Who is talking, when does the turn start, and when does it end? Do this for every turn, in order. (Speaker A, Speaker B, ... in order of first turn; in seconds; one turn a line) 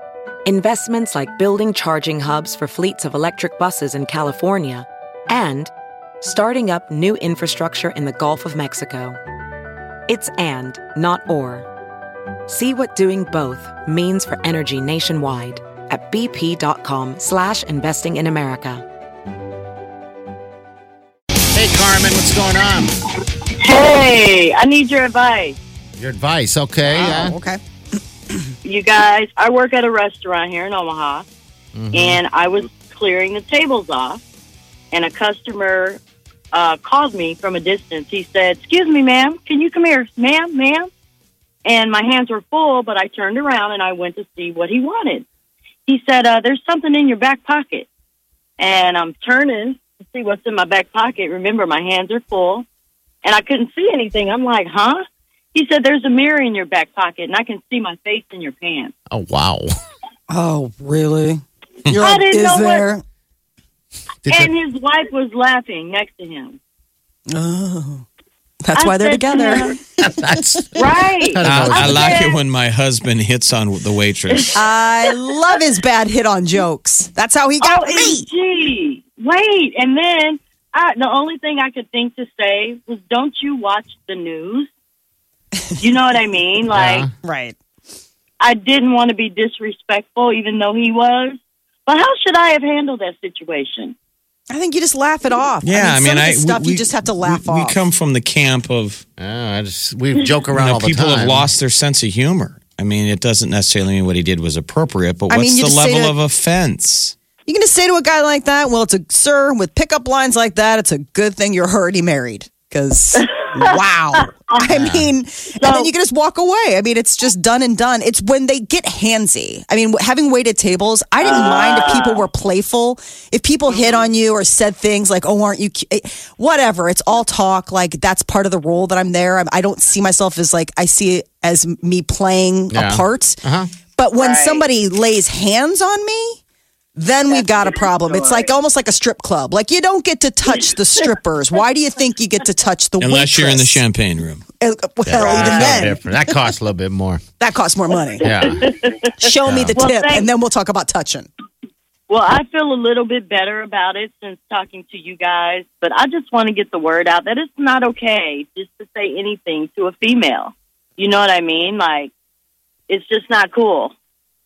Speaker A: 0.4-9.2
Speaker A: 10.1-11.7
Speaker A: 12.5-18.8
Speaker B: 21.5-22.9
Speaker C: 23.6-25.6
Speaker B: 26.0-27.3
Speaker D: 26.8-27.6
Speaker C: 28.6-31.2
Speaker B: 31.7-32.2
Speaker C: 31.9-34.2
Speaker C: 34.9-36.0
Speaker C: 36.5-40.9
Speaker C: 41.6-45.2
Speaker C: 45.9-47.9
Speaker C: 48.6-52.6
Speaker C: 53.2-58.9
Speaker B: 59.1-59.7
Speaker D: 60.3-63.0
Speaker C: 62.0-62.9
Speaker B: 64.2-64.5
Speaker C: 64.3-66.6
Speaker D: 67.3-68.0
Speaker D: 68.6-72.1
Speaker C: 68.7-69.8
Speaker B: 70.0-72.2
Speaker C: 70.7-71.4
Speaker E: 71.4-74.6
Speaker C: 72.0-72.3
Speaker D: 74.5-78.3
Speaker C: 77.6-84.7
Speaker C: 85.8-87.0
Speaker B: 86.7-87.1
Speaker D: 87.2-87.5
Speaker C: 88.4-94.0
Speaker D: 94.5-97.8
Speaker E: 95.6-99.0
Speaker B: 99.2-101.5
Speaker E: 100.5-107.1
Speaker D: 105.3-106.2
Speaker D: 107.5-133.4
Speaker C: 113.1-114.6
Speaker B: 114.7-115.1
Speaker C: 115.6-115.9
Speaker C: 121.2-122.2
Speaker C: 123.7-124.1
Speaker B: 132.7-133.7
Speaker D: 134.0-136.4
Speaker C: 134.2-134.6
Speaker D: 136.9-143.8
Speaker C: 137.3-138.5
Speaker E: 143.0-144.4
Speaker D: 144.6-146.3
Speaker B: 145.1-147.2
Speaker D: 147.4-148.7
Speaker B: 148.2-148.6
Speaker C: 148.4-149.1
Speaker D: 149.2-151.3
Speaker B: 149.4-149.8
Speaker C: 149.7-150.2
Speaker C: 152.1-162.1
Speaker C: 162.9-163.9